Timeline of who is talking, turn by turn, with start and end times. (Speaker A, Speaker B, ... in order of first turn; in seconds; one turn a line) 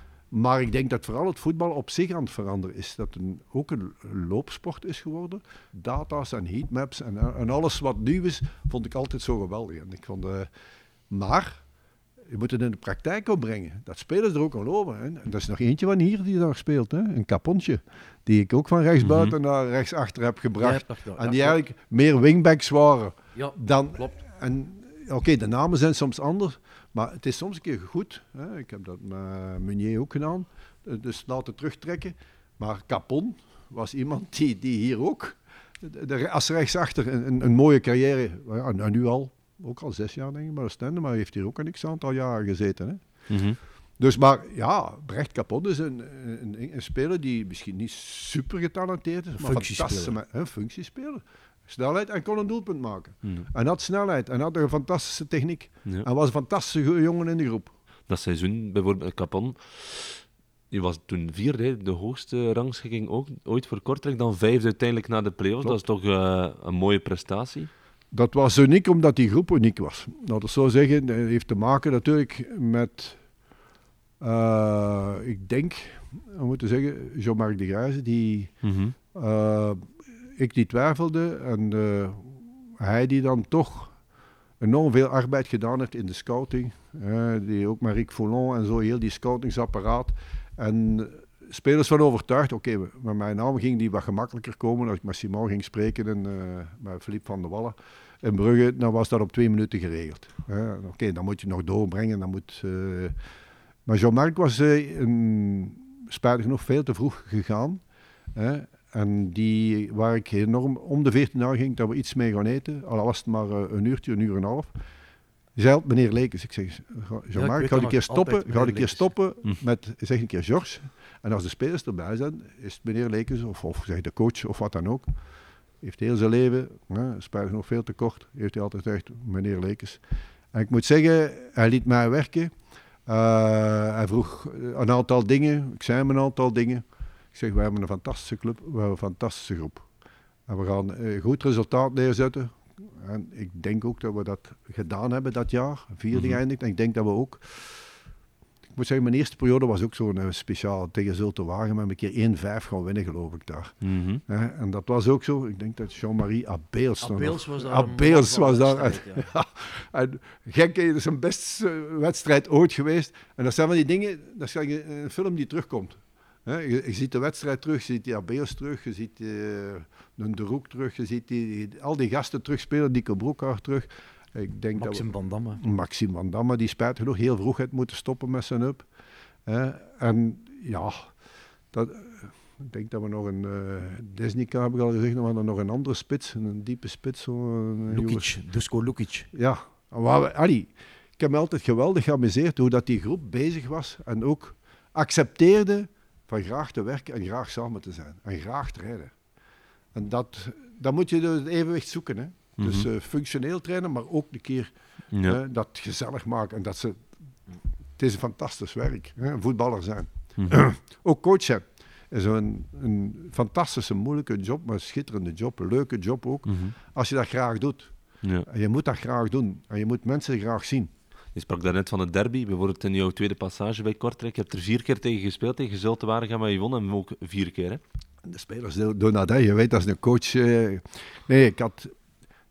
Speaker A: 0.3-10.5
Speaker A: 11.1-11.6
Speaker A: 12.3-43.0
Speaker B: 19.0-19.3
Speaker C: 20.6-21.6
Speaker C: 23.4-24.1
Speaker B: 43.3-43.6
Speaker A: 44.0-57.7
Speaker C: 49.4-50.1
Speaker B: 58.1-67.7
Speaker A: 68.1-73.2
Speaker A: 74.2-78.5
Speaker B: 78.6-78.9
Speaker A: 79.1-83.9
Speaker A: 84.6-103.1
Speaker A: 103.8-107.8
Speaker A: 108.3-114.7
Speaker A: 115.5-125.1
Speaker C: 117.3-119.1
Speaker A: 125.8-130.0
Speaker A: 130.5-132.5
Speaker A: 133.1-139.9
Speaker A: 140.5-147.9
Speaker B: 146.1-146.4
Speaker A: 148.7-153.8
Speaker B: 153.8-154.2
Speaker A: 154.3-175.1
Speaker C: 157.0-159.2
Speaker C: 174.7-175.6
Speaker A: 175.6-178.8
Speaker A: 179.4-181.1
Speaker A: 181.7-188.3
Speaker C: 187.9-189.3
Speaker A: 189.3-199.1
Speaker A: 199.9-204.7
Speaker B: 202.6-202.9
Speaker B: 205.1-205.4
Speaker A: 205.2-207.1
Speaker A: 208.0-217.9
Speaker B: 210.4-210.6
Speaker B: 216.4-216.7
Speaker A: 218.4-220.9
Speaker B: 221.3-227.8
Speaker A: 228.2-231.9